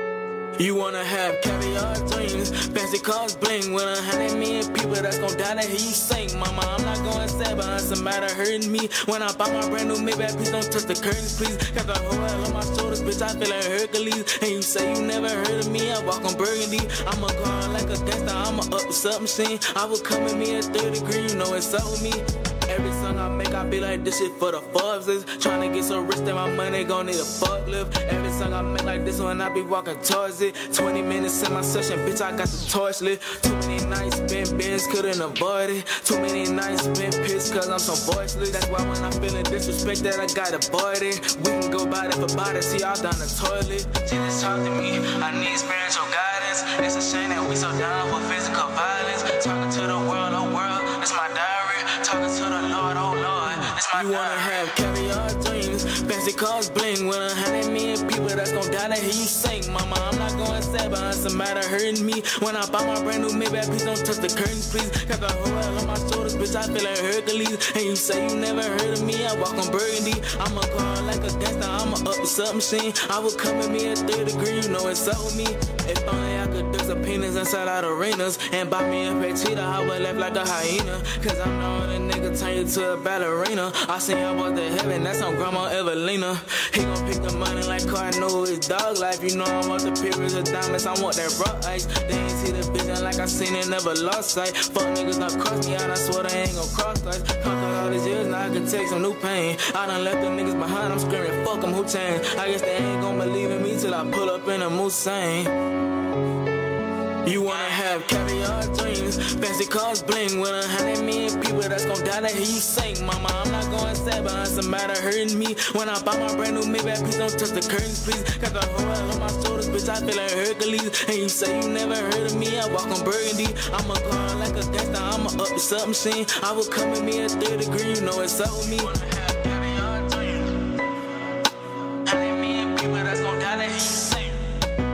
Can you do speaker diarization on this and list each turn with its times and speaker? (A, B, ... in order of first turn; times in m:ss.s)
0:00.6-1:45.5 A
1:47.2-2:10.6 A
2:12.0-2:14.4 A